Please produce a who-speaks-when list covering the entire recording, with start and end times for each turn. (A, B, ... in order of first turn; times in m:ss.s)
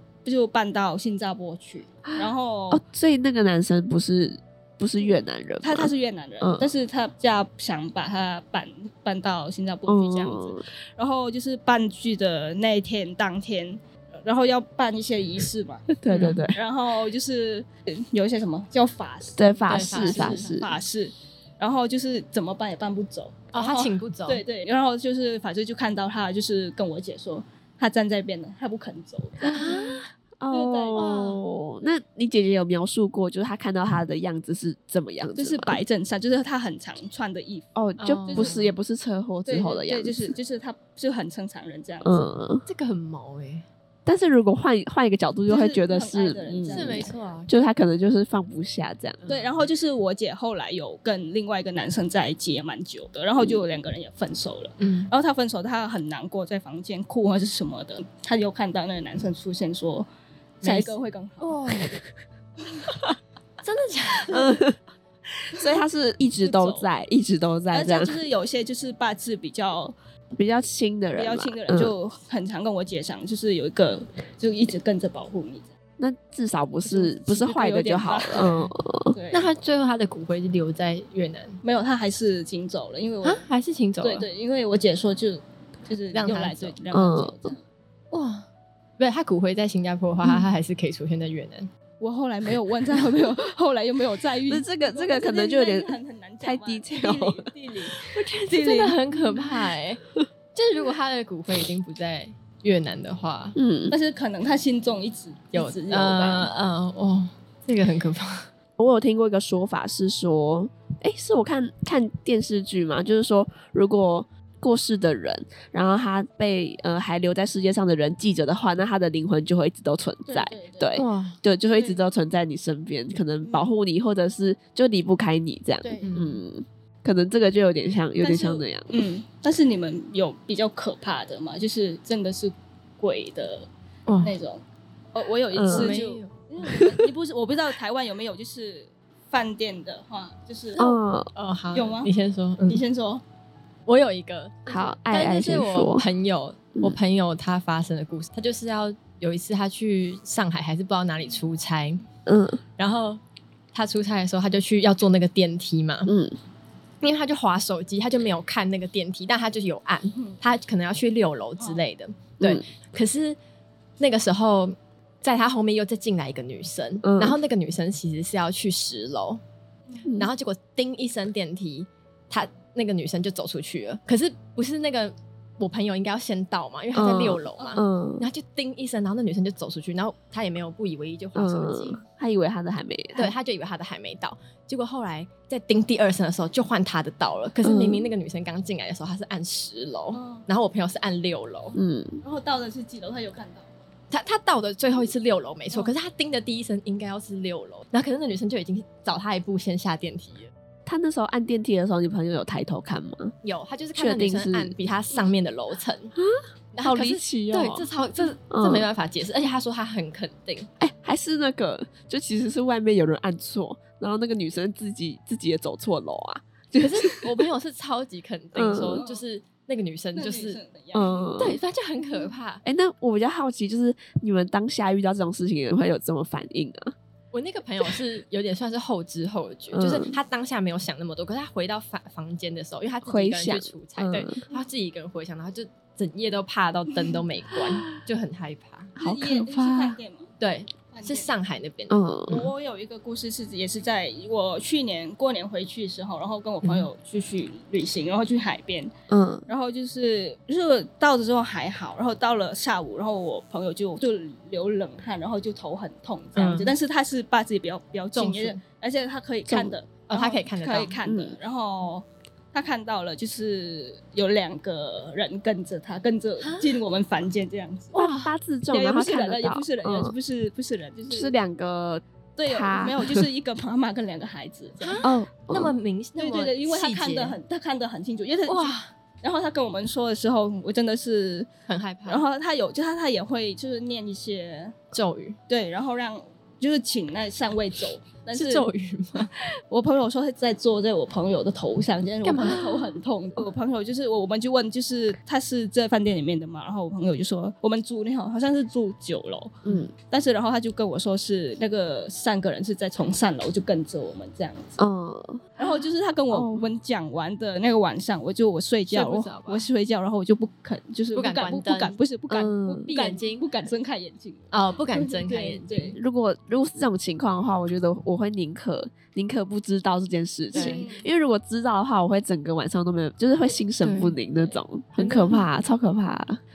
0:00.2-0:02.8 A
0:02.1-0:06.7 B
0:05.1-0:15.9 A
0:09.9-0:10.6 B
0:16.0-0:16.6 B
0:16.1-0:16.5 C
0:16.5-0:29.8 A
0:19.4-0:20.7 B
0:19.7-0:20.5 C
0:23.5-0:24.4 C
0:29.4-0:30.1 C
0:29.4-0:35.8 B
0:30.5-0:31.0 A
0:30.9-0:31.4 C
0:35.3-0:37.7 A
0:37.8-0:40.3 B
0:38.0-0:38.8 C
0:38.3-0:38.6 A
0:39.4-0:42.2 A
0:42.0-0:42.6 B
0:42.6-0:43.6 C
0:44.0-0:49.2 B
0:45.5-0:47.2 A
0:46.7-0:47.6 C
0:49.2-0:49.7 C
0:49.3-1:00.1 A
0:54.8-0:55.1 C
1:00.6-1:01.6 A
1:00.6-1:01.9 C
1:03.6-1:04.6 C
1:04.3-1:04.8 B
1:05.5-1:08.2 B
1:06.4-1:06.9 A
1:07.7-1:09.9 A
1:10.4-1:11.9 B
1:11.1-1:15.7 A
1:16.0-1:19.2 B
1:16.8-1:18.6 A
1:18.4-1:18.7 C
1:19.1-1:19.5 A
1:19.3-1:21.6 C
1:21.6-1:23.4 A
1:23.2-1:24.3 C
1:24.0-1:27.6 A
1:26.1-1:26.8 C
1:26.9-1:27.5 B
1:28.1-1:28.4 C
1:29.0-1:31.7 C
1:32.0-1:39.0 A
1:34.5-1:37.5 B
1:38.1-1:40.0 C
1:40.5-1:43.6 C
1:43.5-1:43.9 B
1:43.9-1:46.5 A
1:45.5-1:48.5 C
1:48.8-2:08.9 B
2:00.3-2:01.0 A
2:01.0-2:01.4 C
2:01.7-2:02.0 A
2:03.4-2:03.7 A
2:05.8-2:06.1 A
2:06.0-2:06.4 C
2:08.2-2:13.7 A
2:14.1-2:14.4 C
2:14.2-2:14.6 A
2:15.1-2:20.8 A
2:15.5-2:16.0 B
2:15.7-2:16.3 C
2:20.8-2:22.8 C
2:20.8-2:21.3 B
2:21.7-2:22.1 A
2:22.7-2:23.2 A
2:23.8-2:32.0 C
2:24.7-2:26.0 B
2:32.3-2:32.6 B
2:32.8-2:33.2 C
2:33.7-2:36.1 C
2:36.0-2:36.3 B
2:37.0-2:43.4 C
2:42.4-2:42.6 B
2:44.0-2:49.4 C
2:47.0-2:47.4 B
2:50.0-2:50.3 B
2:50.2-3:02.0 C
2:56.9-2:58.3 B
3:01.3-3:03.3 B
3:03.2-3:11.8 C
3:07.6-3:08.1 B
3:10.1-3:10.4 A
3:11.7-3:12.2 B
3:12.2-3:13.8 A
3:14.1-3:20.5 C
3:20.8-3:23.3 B
3:23.4-3:26.1 C
3:24.0-3:24.7 B
3:26.2-3:27.9 B
3:26.7-3:30.7 C
3:28.5-3:28.9 B
3:30.8-3:37.1 B
3:36.8-3:40.6 C
3:38.5-3:39.0 B
3:38.9-3:39.2 A
3:40.1-3:41.3 A
3:40.9-3:41.6 B
3:41.4-3:42.6 C
3:42.6-3:46.9 B
3:47.3-3:58.9 C
3:49.7-3:50.2 B
3:53.0-3:54.4 B
3:59.0-4:00.0 B
3:59.0-4:00.3 A
4:00.4-4:02.4 C
4:00.9-4:01.3 A
4:01.9-4:02.5 B
4:02.3-4:08.9 A
4:06.6-4:06.9 C
4:09.1-4:09.5 B
4:09.5-4:27.9 A
4:16.4-4:16.7 C
4:18.1-4:18.6 C
4:19.5-4:19.8 B
4:20.1-4:21.0 C
4:21.0-4:21.4 B
4:26.4-4:26.8 C
4:27.9-4:28.3 C
4:27.9-4:30.1 B
4:28.7-4:31.3 A
4:31.1-4:33.2 B
4:32.4-4:35.0 A
4:34.8-4:37.4 C
4:35.0-4:35.7 B
4:36.2-4:41.5 A
4:38.4-4:38.9 C
4:41.7-4:42.2 C
4:42.0-4:44.7 A
4:44.9-4:45.4 C
4:45.5-4:48.7 A
4:48.3-4:49.3 C
4:49.7-5:04.8 A
4:52.2-4:53.0 C
4:59.6-4:59.9 B
5:04.8-5:05.4 B
5:05.6-5:16.0 A
5:06.3-5:06.7 B
5:08.9-5:09.7 C
5:11.1-5:12.0 C
5:12.3-5:12.9 B
5:12.9-5:13.7 C
5:14.5-5:16.0 C
5:16.0-5:26.4 B
5:20.5-5:20.8 C
5:20.5-5:21.1 A
5:23.8-5:24.2 C
5:24.3-5:24.6 A
5:25.0-5:25.4 C